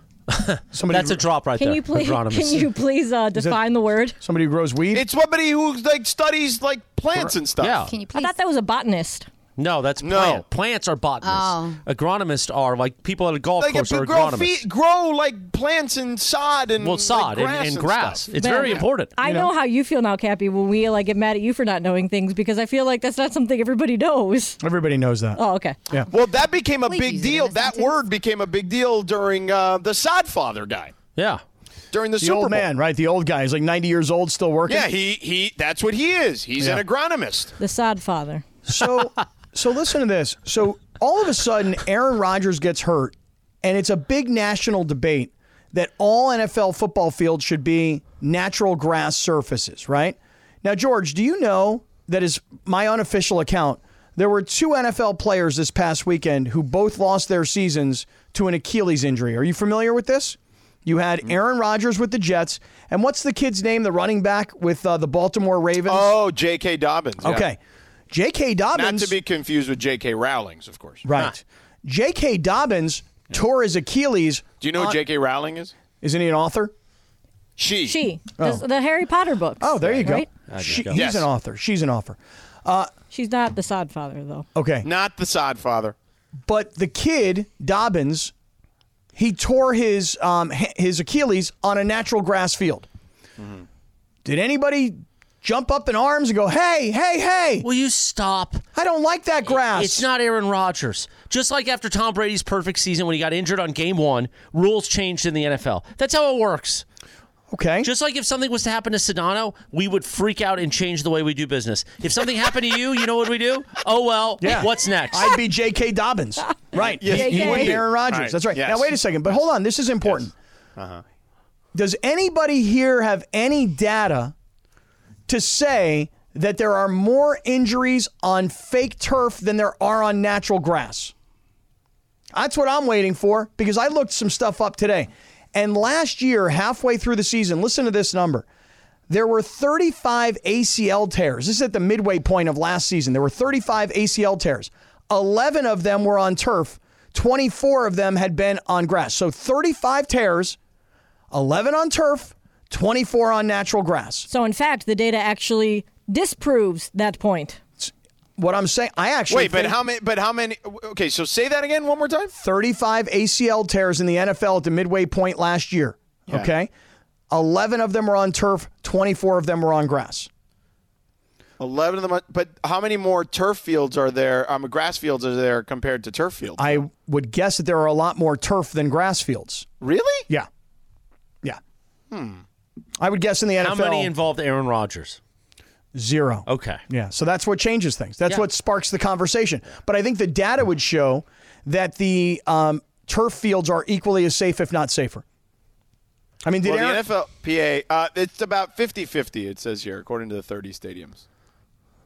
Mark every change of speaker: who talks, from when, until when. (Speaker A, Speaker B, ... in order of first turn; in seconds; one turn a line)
Speaker A: 0.3-2.7
Speaker B: 0.7-1.2
Speaker C: 1.6-4.2
Speaker B: 3.3-3.6
Speaker B: 4.2-5.1
Speaker D: 4.9-7.8
Speaker A: 7.6-7.9
Speaker E: 7.8-8.3
Speaker C: 8.1-9.3
Speaker A: 9.6-14.7
Speaker D: 10.0-10.4
Speaker E: 11.2-11.8
Speaker D: 13.6-18.9
Speaker A: 16.8-19.1
Speaker C: 18.4-24.6
Speaker B: 19.2-19.5
Speaker B: 24.6-26.1
Speaker C: 25.4-25.8
Speaker D: 26.1-30.9
Speaker E: 26.8-28.0
Speaker A: 31.2-31.4
Speaker D: 31.9-32.7
Speaker B: 32.2-34.9
Speaker D: 34.7-37.5
Speaker C: 37.6-38.4
Speaker B: 38.7-66.2
Speaker D: 65.8-67.5
Speaker B: 67.2-67.6
Speaker B: 68.1-69.2
Speaker D: 68.7-71.0
Speaker B: 71.0-75.0
Speaker D: 74.6-75.7
Speaker B: 76.0-76.7
Speaker D: 77.6-78.0
Speaker C: 77.8-80.3
Speaker B: 79.6-82.9
Speaker A: 80.3-81.0
Speaker D: 80.9-81.3
Speaker C: 83.1-84.5
Speaker B: 84.5-84.9
Speaker D: 84.8-86.0
Speaker B: 86.5-88.3
Speaker B: 89.2-92.9
Speaker D: 93.4-93.7
Speaker B: 94.2-97.7
Speaker A: 97.6-98.6
Speaker B: 98.7-100.0
Speaker A: 99.5-106.8
Speaker B: 107.5-107.9
Speaker A: 107.8-115.4
Speaker B: 114.4-120.3
Speaker C: 116.6-117.8
Speaker D: 116.8-119.0
Speaker D: 120.8-121.0
Speaker B: 121.7-124.3
Speaker B: 125.3-131.1
Speaker B: 132.3-138.5
Speaker B: 139.1-150.6
Speaker B: 151.3-154.3
Speaker C: 154.3-157.6
Speaker B: 157.8-159.8
Speaker D: 159.3-162.3
Speaker B: 162.4-166.7
Speaker B: 167.3-170.3
Speaker D: 171.6-176.8
Speaker B: 176.6-179.7
Speaker D: 179.8-180.3
Speaker D: 182.1-182.4
Speaker B: 183.0-184.1
Speaker A: 183.6-185.2
Speaker B: 185.9-195.2
Speaker A: 186.5-186.8
Speaker B: 196.4-197.0
Speaker D: 196.6-201.2